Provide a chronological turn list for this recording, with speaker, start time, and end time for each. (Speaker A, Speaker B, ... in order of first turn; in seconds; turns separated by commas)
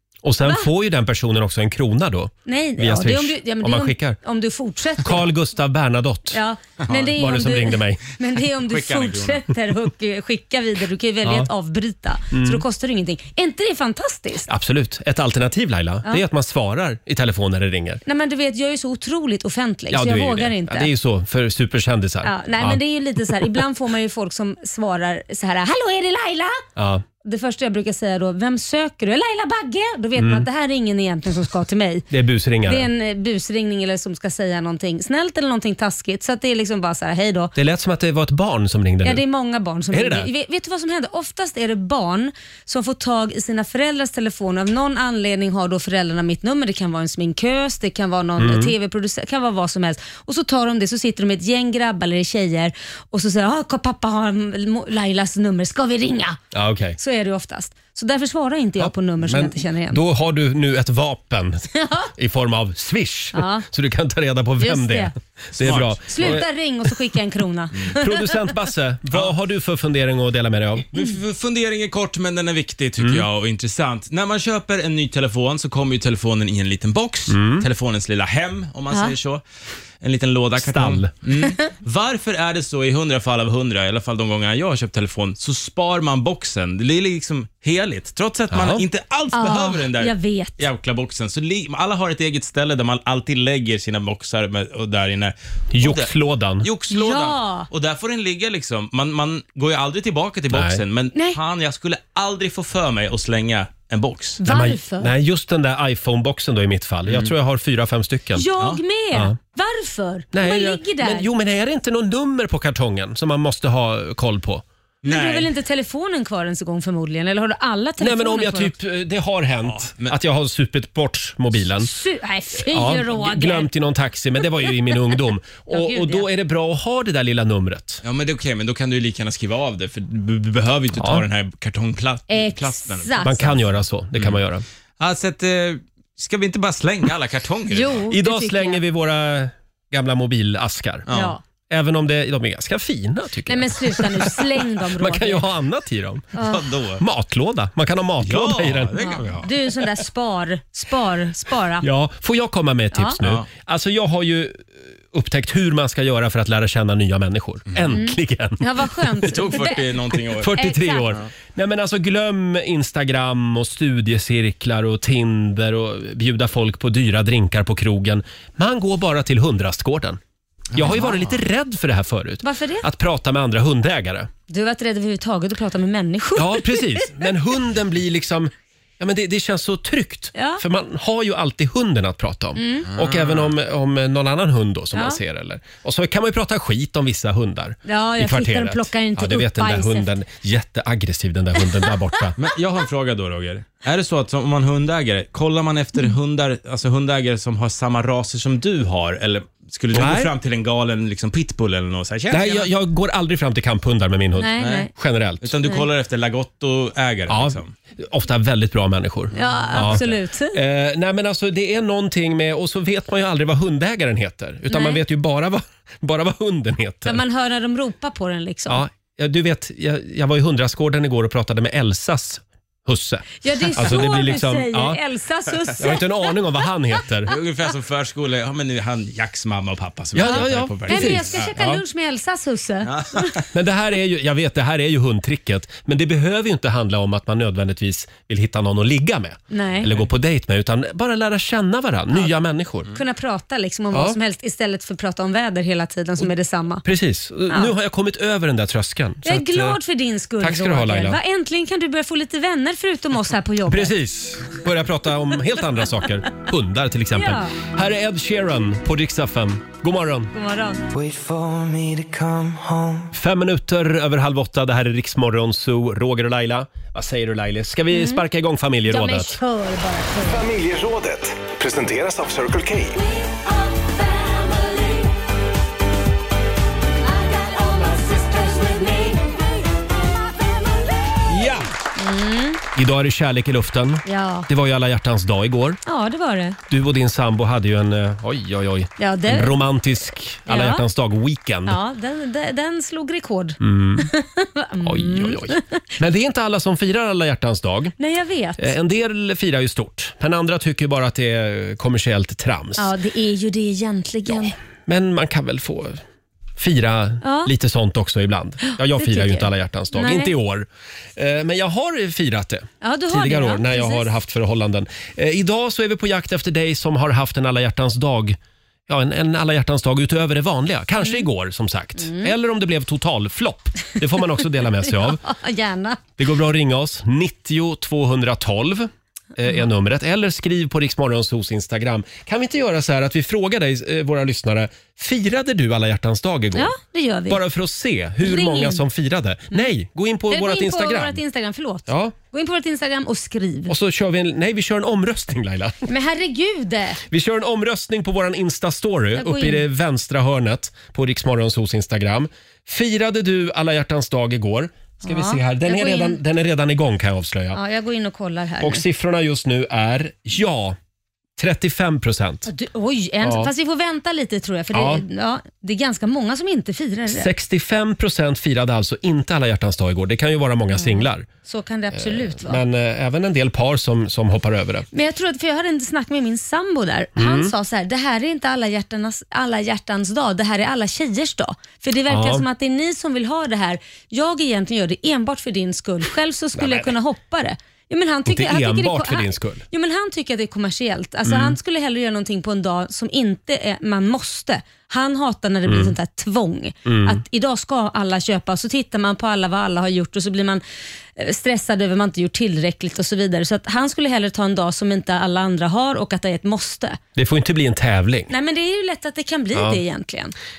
Speaker A: 0.2-4.2, Speaker B: 2.5-5.2, Speaker A: 5.0-8.0, Speaker B: 6.3-14.5, Speaker C: 8.6-9.4, Speaker A: 11.2-11.5, Speaker A: 12.3-12.6, Speaker A: 14.5-18.0, Speaker B: 18.1-20.9, Speaker A: 19.9-22.8, Speaker B: 22.2-26.6, Speaker A: 26.8-27.0, Speaker B: 27.2-32.0, Speaker A: 30.1-30.5, Speaker A: 32.1-32.9, Speaker B: 32.6-37.5, Speaker A: 37.5-39.2, Speaker B: 39.0-56.4, Speaker A: 39.9-40.3, Speaker A: 48.4-48.7, Speaker A: 56.5-57.0, Speaker B: 57.0-60.0, Speaker A: 58.8-66.5, Speaker B: 61.7-62.1, Speaker B: 63.3-63.6, Speaker B: 64.6-65.1, Speaker C: 65.6-66.4, Speaker B: 66.1-68.3, Speaker A: 67.9-70.8, Speaker C: 70.9-79.4, Speaker A: 73.0-73.2, Speaker A: 77.3-77.7, Speaker C: 80.0-104.4, Speaker A: 80.6-81.1, Speaker A: 88.5-88.8, Speaker B: 89.3-90.6, Speaker A: 95.7-96.7, Speaker B: 96.9-97.7, Speaker A: 100.5-100.8, Speaker B: 104.4-105.1, Speaker A: 104.4-108.5, Speaker B: 108.3-111.3, Speaker A: 110.3-114.6, Speaker C: 115.0-115.5, Speaker B: 115.0-118.7, Speaker A: 118.0-121.9, Speaker C: 119.7-120.1, Speaker B: 121.8-123.7, Speaker A: 122.6-128.0, Speaker B: 125.7-126.3, Speaker C: 128.0-134.4, Speaker A: 130.9-131.2, Speaker B: 132.3-133.4, Speaker A: 133.2-134.6, Speaker C: 135.0-138.0, Speaker B: 137.7-138.8, Speaker A: 138.1-141.1, Speaker C: 141.1-141.3, Speaker B: 141.1-141.4, Speaker A: 141.7-146.4, Speaker B: 143.5-145.4, Speaker B: 146.3-146.6, Speaker C: 146.4-147.0, Speaker A: 147.0-149.2, Speaker C: 148.2-149.5, Speaker B: 149.0-151.8, Speaker A: 151.8-159.6, Speaker B: 157.9-159.8, Speaker C: 159.3-160.5, Speaker A: 160.3-170.2, Speaker B: 160.5-161.1, Speaker A: 170.7-174.3, Speaker C: 170.8-171.2, Speaker B: 172.4-172.8, Speaker B: 174.5-177.2, Speaker A: 176.3-192.4, Speaker B: 180.3-180.6, Speaker B: 182.6-182.9, Speaker C: 182.9-183.5, Speaker B: 184.9-185.2, Speaker B: 187.8-190.1, Speaker C: 192.4-202.7, Speaker A: 199.9-200.3, Speaker A: 202.3-205.5, Speaker B: 204.4-204.9, Speaker C: 204.6-204.9, Speaker C: 205.4-207.7, Speaker A: 207.3-217.2, Speaker B: 209.3-210.6, Speaker C: 209.7-210.0, Speaker B: 214.7-215.0, Speaker B: 217.1-218.8, Speaker A: 218.7-225.0, Speaker B: 223.4-226.3, Speaker A: 225.8-227.3, Speaker C: 227.3-231.7, Speaker A: 230.1-231.8, Speaker B: 230.2-233.3, Speaker C: 232.8-233.4, Speaker A: 233.5-242.9, Speaker B: 239.5-239.9, Speaker B: 242.9-246.8, Speaker A: 243.9-244.2, Speaker A: 246.8-249.8, Speaker B: 249.2-253.9, Speaker A: 250.4-251.2, Speaker A: 253.7-260.3, Speaker B: 257.1-257.5, Speaker B: 260.3-260.8, Speaker D: 260.9-263.1, Speaker A: 263.1-269.4, Speaker B: 267.9-268.2, Speaker B: 268.9-270.4, Speaker E: 270.2-273.0, Speaker B: 277.6-279.1, Speaker A: 281.3-281.7, Speaker B: 281.9-282.6, Speaker A: 282.7-285.8, Speaker B: 284.1-284.5, Speaker B: 285.9-286.6, Speaker A: 286.7-291.8, Speaker B: 289.0-289.6, Speaker B: 290.5-290.8, Speaker B: 291.6-295.8, Speaker A: 293.6-294.1, Speaker A: 294.8-297.9, Speaker B: 298.0-298.7, Speaker A: 298.6-302.9, Speaker B: 302.8-304.5, Speaker A: 304.3-306.0, Speaker A: 306.6-325.2, Speaker B: 307.2-307.5, Speaker B: 308.6-310.3, Speaker B: 312.8-314.1, Speaker B: 322.0-322.3, Speaker B: 324.7-326.0, Speaker A: 326.2-336.7, Speaker B: 336.5-337.4, Speaker A: 337.3-341.2, Speaker B: 338.2-338.8, Speaker B: 340.3-343.7, Speaker A: 341.9-342.1, Speaker A: 343.7-345.9, Speaker B: 345.9-347.0, Speaker A: 347.1-357.6, Speaker B: 349.1-349.6, Speaker B: 355.0-356.2, Speaker B: 357.5-358.8, Speaker A: 358.6-360.8, Speaker A: 361.4-362.5, Speaker B: 362.5-367.3, Speaker A: 363.2-363.5, Speaker A: 364.7-365.0, Speaker A: 367.1-371.3, Speaker B: 370.7-372.6, Speaker A: 371.9-374.9, Speaker B: 374.9-400.6, Speaker A: 377.1-377.5, Speaker A: 382.1-382.4, Speaker A: 386.6-386.9, Speaker A: 388.2-389.6, Speaker A: 391.2-391.6, Speaker A: 395.7-395.9, Speaker A: 396.9-397.2, Speaker B: 401.1-407.0, Speaker A: 407.1-408.3, Speaker B: 408.3-410.3, Speaker A: 409.5-409.8